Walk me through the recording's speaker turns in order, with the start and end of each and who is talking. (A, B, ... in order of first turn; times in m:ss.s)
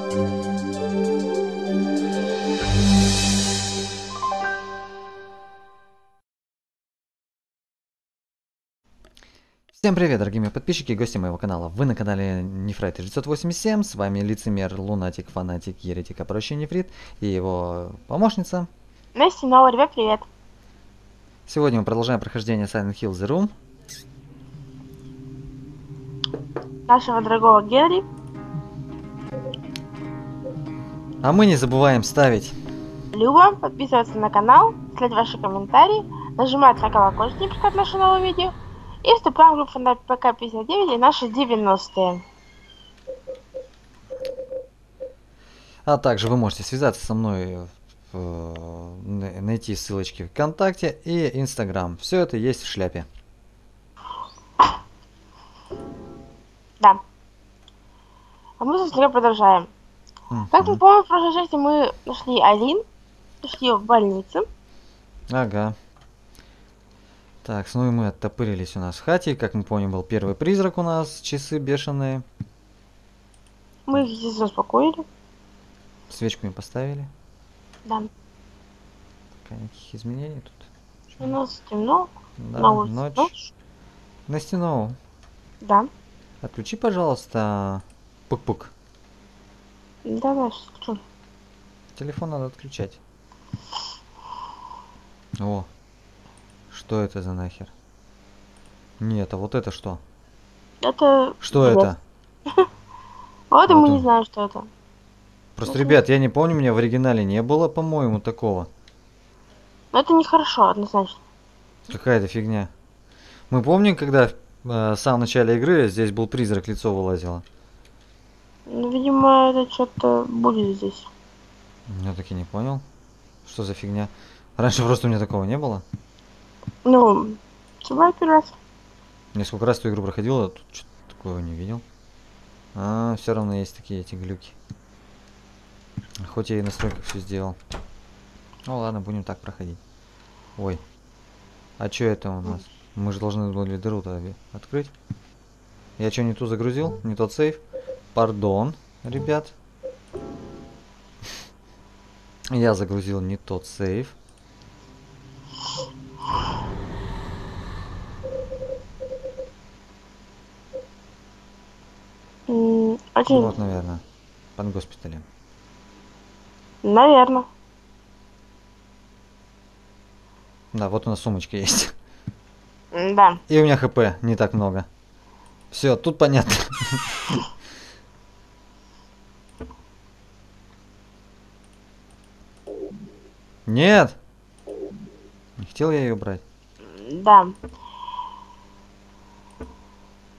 0:09.7-0:18.7 A
0:19.1-0:20.2 B
0:21.5-0:23.5 A
0:26.9-0:28.1 B
0:31.2-0:32.6 A
0:33.1-0:38.5 B
0:39.0-0:42.2 B
0:45.8-0:53.1 A
0:58.6-0:59.7 B
1:00.3-1:00.8 A
1:00.5-1:02.8 B
1:03.4-1:04.5 B
1:05.3-1:05.8 A
1:07.4-1:12.2 A
1:13.9-1:15.0 B
1:16.1-1:17.1 A
1:19.4-1:21.4 A
1:21.2-1:23.5 B
1:22.4-1:23.3 A
1:24.3-1:25.0 A
1:25.6-1:25.9 B
1:26.4-1:28.7 A
1:30.0-1:31.0 B
1:31.9-1:33.0 A
1:35.4-1:35.7 A
1:36.7-1:37.7 A
1:39.0-1:40.0 A
1:40.8-1:41.9 B
1:41.4-1:42.0 A
1:43.5-1:44.7 B
1:43.7-1:44.0 A
1:45.6-1:48.7 A
1:45.7-1:46.0 B
1:49.9-1:51.2 B
1:51.9-1:52.7 A
1:53.5-1:57.4 A
1:58.7-2:01.1 B
2:01.9-2:02.8 A
2:03.4-2:05.8 A
2:06.8-2:08.6 B
2:09.3-2:11.8 A
2:12.8-2:14.6 A
2:16.2-2:17.6 A
2:18.7-2:19.8 A
2:20.6-2:20.8 A
2:21.8-2:24.9 A
2:26.0-2:27.6 A
2:28.2-2:29.5 A
2:32.5-2:34.2 A
2:42.5-2:43.5 B
2:43.3-2:44.0 A
2:44.6-2:45.2 A
2:46.8-2:47.5 B
2:50.7-2:52.0 A
2:52.9-2:53.4 B
2:53.5-2:54.9 A
2:55.7-2:57.4 A
3:03.7-3:04.2 A
3:05.6-3:06.4 A
3:06.8-3:07.6 B